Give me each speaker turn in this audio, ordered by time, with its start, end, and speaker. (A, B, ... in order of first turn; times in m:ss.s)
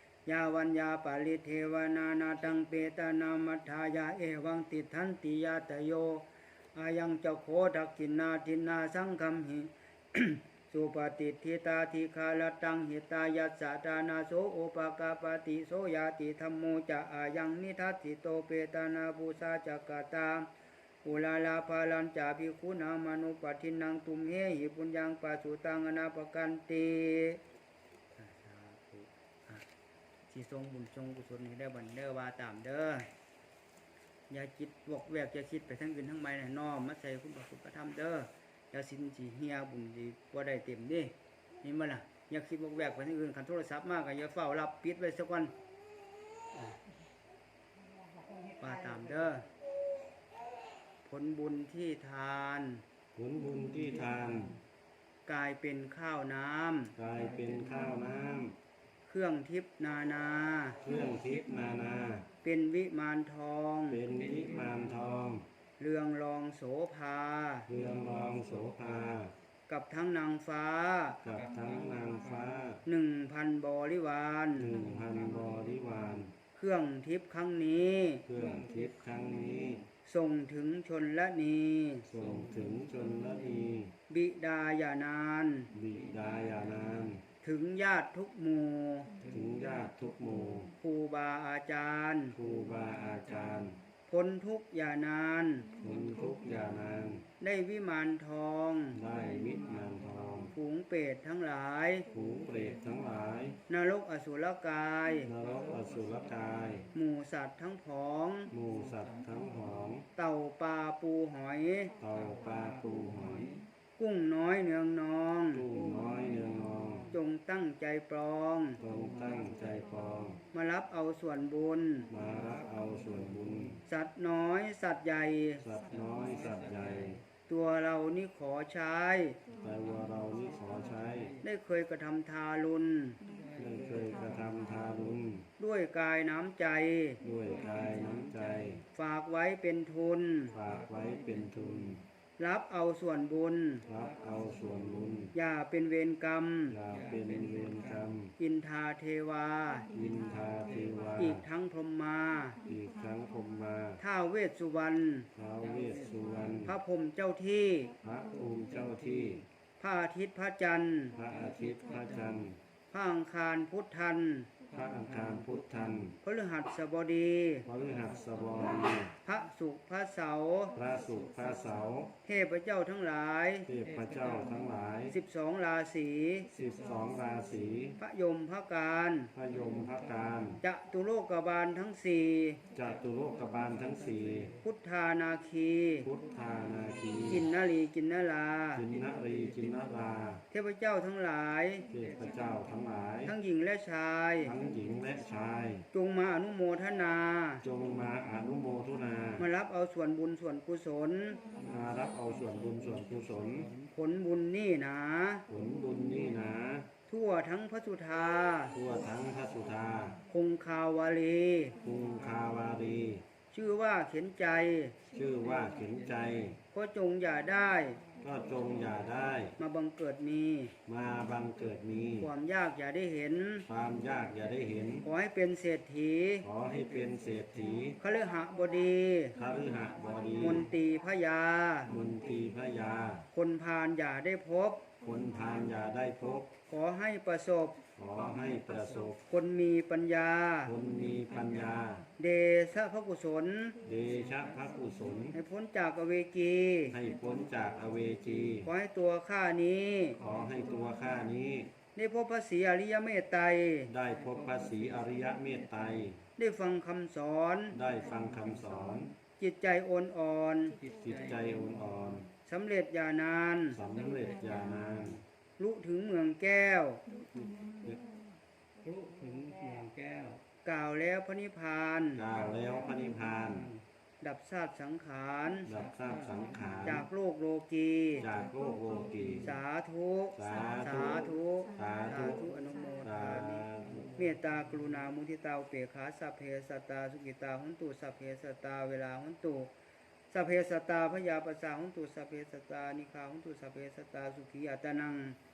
0:00.3-0:20.5 A
0:21.0-0:27.4 A
0:28.1-0:29.7 A
0:30.3-0:33.1 A
0:34.3-0:45.6 A
0:47.8-0:49.1 B
0:48.6-0:49.5 A
0:51.0-0:52.8 A
0:53.2-0:54.6 C
0:55.3-0:57.0 A
0:57.0-0:58.6 C
0:59.1-1:00.8 A
1:00.8-1:02.2 C
1:02.4-1:04.0 A
1:03.9-1:05.4 C
1:05.8-1:07.7 A
1:07.7-1:09.3 C
1:09.7-1:11.2 A
1:11.2-1:12.8 C
1:12.8-1:14.7 A
1:14.6-1:16.3 C
1:16.6-1:18.3 A
1:18.3-1:19.9 C
1:20.0-1:22.1 A
1:22.1-1:23.9 C
1:24.1-1:25.7 A
1:25.7-1:27.2 C
1:27.4-1:29.1 A
1:29.2-1:30.7 C
1:30.8-1:32.4 A
1:32.3-1:33.8 C
1:34.1-1:35.7 A
1:35.8-1:37.2 C
1:37.4-1:39.0 A
1:39.0-1:40.5 C
1:40.5-1:42.1 A
1:42.1-1:43.6 C
1:43.7-1:45.3 A
1:45.3-1:46.9 C
1:46.9-1:48.5 A
1:48.5-1:50.1 C
1:50.2-1:51.9 A
1:52.0-1:53.6 C
1:54.0-1:55.7 A
1:55.5-1:57.1 C
1:57.1-1:58.8 A
1:58.8-2:00.4 C
2:00.5-2:02.1 A
2:02.1-2:03.8 C
2:03.9-2:05.6 A
2:05.6-2:07.2 C
2:07.5-2:09.4 A
2:09.6-2:11.4 C
2:11.4-2:13.2 A
2:13.6-2:15.4 C
2:15.6-2:17.2 A
2:17.2-2:18.8 C
2:18.9-2:20.6 A
2:20.5-2:22.0 C
2:22.4-2:23.8 A
2:23.9-2:25.3 C
2:25.3-2:26.8 A
2:26.7-2:28.3 C
2:28.4-2:29.9 A
2:29.9-2:31.4 C
2:31.2-2:32.6 A
2:32.6-2:34.0 C
2:34.0-2:35.3 A
2:35.4-2:36.7 C
2:36.6-2:38.0 A
2:38.0-2:39.4 C
2:39.8-2:41.2 A
2:41.1-2:42.6 C
2:42.9-2:44.5 A
2:44.7-2:46.2 C
2:46.2-2:47.7 A
2:47.7-2:49.1 C
2:49.2-2:50.8 A
2:50.8-2:52.1 C
2:52.2-2:53.7 A
2:53.7-2:55.1 C
2:55.1-2:56.5 A
2:56.6-2:58.0 C
2:58.0-2:59.3 A
2:59.4-3:00.6 C
3:00.6-3:02.6 A
3:02.8-3:04.5 C
3:04.6-3:06.1 A
3:06.0-3:07.5 C
3:07.3-3:08.9 A
3:08.8-3:10.4 C
3:10.5-3:11.9 A
3:11.9-3:13.3 C
3:13.2-3:14.6 A
3:14.4-3:15.8 C
3:15.9-3:17.6 A
3:17.6-3:19.4 C
3:19.4-3:21.4 A
3:21.6-3:23.7 C
3:23.9-3:25.5 A
3:25.5-3:26.9 C
3:27.1-3:28.8 A
3:28.7-3:30.2 C
3:30.3-3:31.8 A
3:31.8-3:33.2 C
3:33.5-3:35.0 A
3:35.1-3:36.6 C
3:36.7-3:38.0 A
3:38.2-3:39.6 C
3:39.6-3:40.8 A
3:40.9-3:42.3 C
3:42.2-3:43.7 A
3:43.7-3:45.0 C
3:45.0-3:46.5 A
3:46.4-3:48.0 C
3:48.0-3:49.4 A
3:49.4-3:50.7 C
3:50.4-3:51.9 A
3:51.9-3:53.2 C
3:53.3-3:54.9 A
3:55.0-3:56.5 C
3:56.7-3:57.8 A
3:58.0-3:59.2 C
3:59.3-4:00.7 A
4:00.7-4:02.0 C
4:02.2-4:03.8 A
4:03.8-4:05.4 C
4:05.3-4:07.0 A
4:06.9-4:08.7 C
4:08.6-4:10.2 A
4:10.2-4:11.7 C
4:12.0-4:13.9 A
4:13.9-4:16.2 C
4:16.4-4:17.8 A
4:17.7-4:19.1 C
4:19.4-4:20.8 A
4:20.9-4:22.3 C
4:22.4-4:23.8 A
4:23.7-4:25.2 C
4:25.6-4:27.0 A
4:27.3-4:28.0 C
4:28.8-4:29.9 B
4:30.6-4:32.2 A
4:32.2-4:33.7 C
4:34.2-4:35.7 A
4:35.7-4:37.0 C
4:36.8-4:38.2 A
4:38.2-4:39.5 C
4:39.4-4:49.7 A
4:40.4-4:42.5 C
4:43.0-4:44.1 C
4:50.3-4:55.4 A